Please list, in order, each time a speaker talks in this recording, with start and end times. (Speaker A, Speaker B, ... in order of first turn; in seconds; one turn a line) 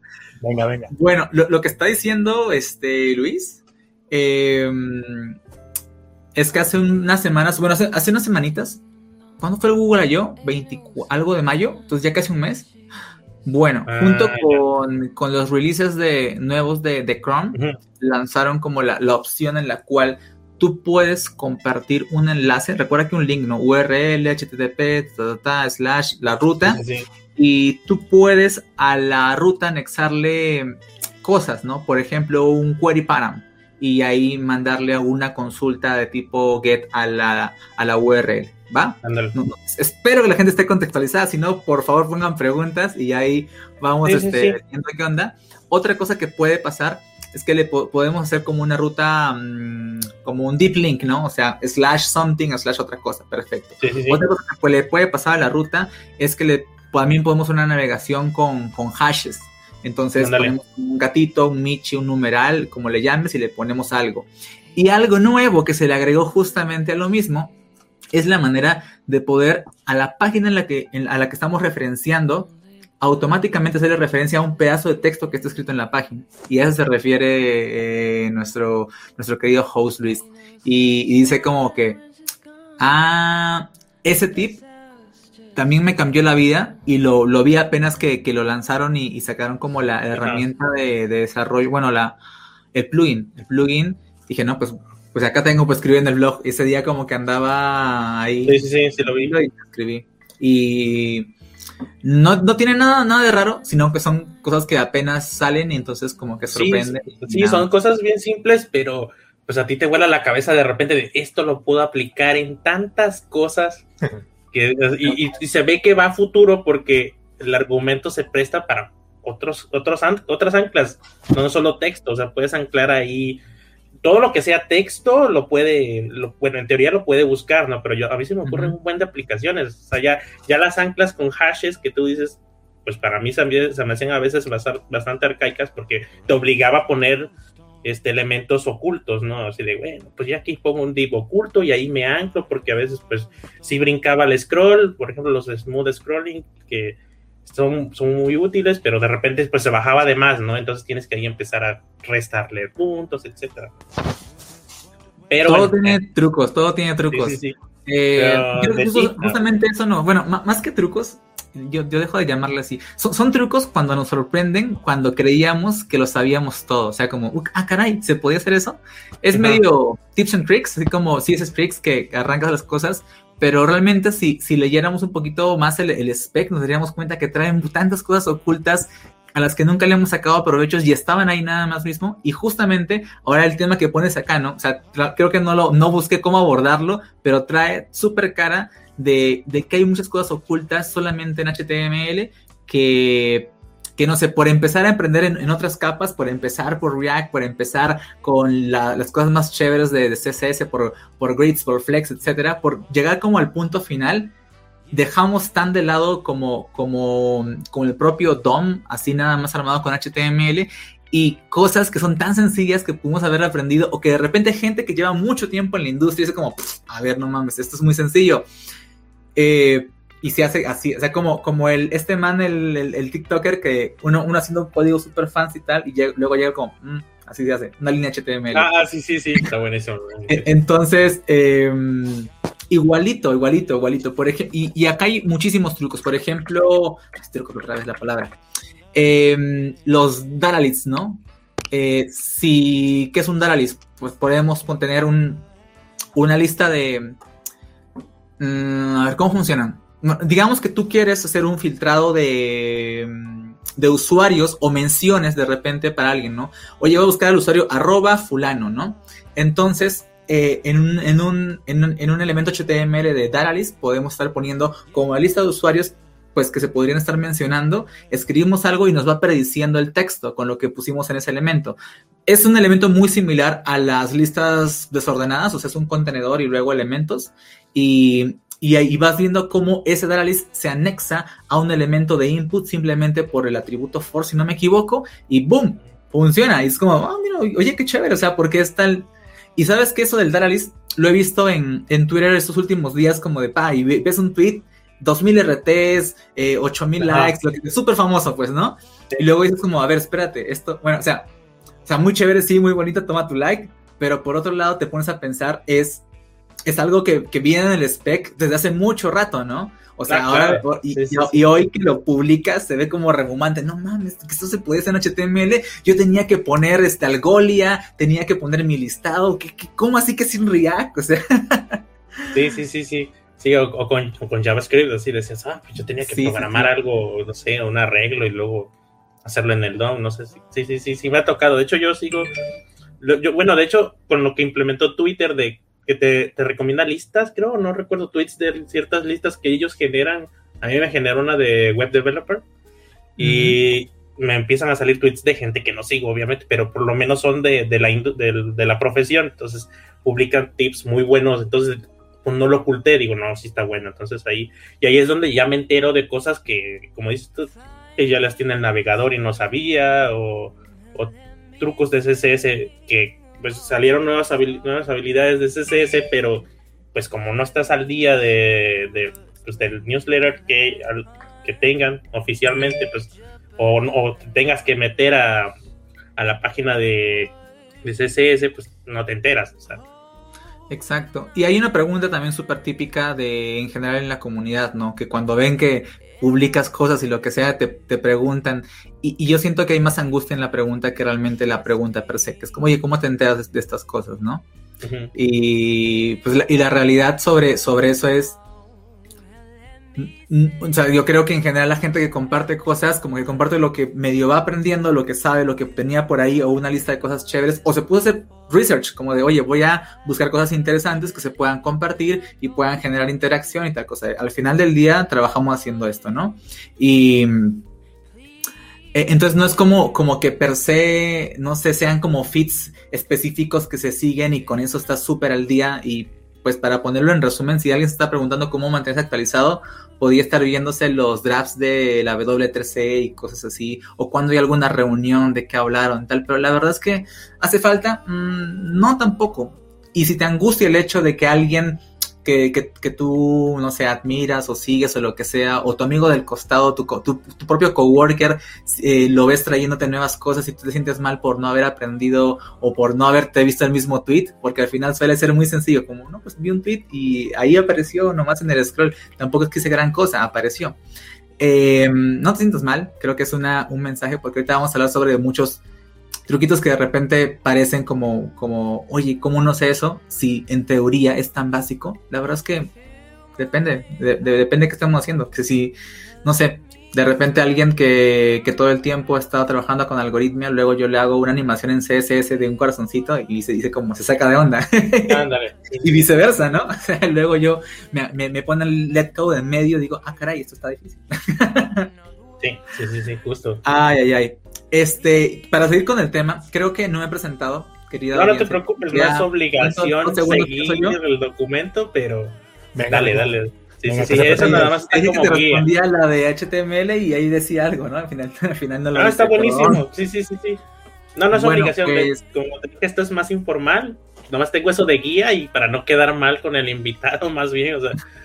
Speaker A: 0.4-0.9
Speaker B: 0.9-5.4
Speaker B: 6.3-8.8
Speaker B: 9.4-12.7
Speaker B: 13.4-26.8
Speaker C: 13.8-14.6
Speaker C: 17.5-17.8
Speaker C: 26.6-27.1
Speaker B: 27.4-67.5
Speaker C: 39.0-39.3
Speaker C: 44.0-44.6
Speaker C: 53.8-54.2
Speaker C: 60.2-60.5
Speaker B: 68.1-82.0
Speaker B: 82.8-84.6
Speaker B: 85.5-92.2
Speaker C: 90.1-90.5
Speaker B: 92.7-98.6
Speaker C: 98.5-99.3
Speaker B: 99.2-101.3
Speaker B: 102.0-107.7
Speaker C: 106.5-113.8
Speaker C: 114.5-123.4
Speaker C: 124.0-137.3
Speaker B: 128.4-128.8
Speaker C: 137.8-153.7
Speaker C: 155.3-156.0
Speaker B: 155.4-204.3
Speaker C: 157.1-157.5
Speaker C: 158.1-159.4
Speaker C: 169.3-169.6
Speaker B: 204.9-218.4
Speaker B: 219.3-228.7
Speaker C: 228.5-230.5
Speaker B: 230.3-238.4
Speaker B: 238.9-245.5
Speaker B: 246.1-247.2
Speaker B: 248.4-301.3
Speaker C: 297.0-297.3
Speaker B: 301.9-306.0
Speaker B: 306.6-321.8
Speaker C: 310.1-311.4
Speaker C: 322.3-328.7
Speaker B: 326.0-326.7
Speaker C: 329.2-332.3
Speaker C: 333.0-342.4
Speaker C: 343.2-375.5
Speaker B: 343.2-343.6
Speaker C: 376.2-379.8
Speaker B: 380.7-394.4
Speaker C: 394.8-395.1
Speaker B: 395.1-398.4
Speaker B: 399.9-417.6
Speaker B: 418.9-460.8
Speaker B: 461.4-465.6
Speaker B: 466.3-472.7
Speaker B: 473.4-485.3
Speaker C: 485.1-486.1
Speaker B: 485.8-491.9
Speaker C: 492.4-493.6
Speaker B: 493.6-501.0
Speaker C: 498.1-502.4
Speaker A: 502.7-504.7
Speaker C: 502.9-505.7
Speaker B: 504.3-509.8
Speaker C: 508.9-510.6
Speaker C: 511.1-518.0
Speaker B: 511.3-512.2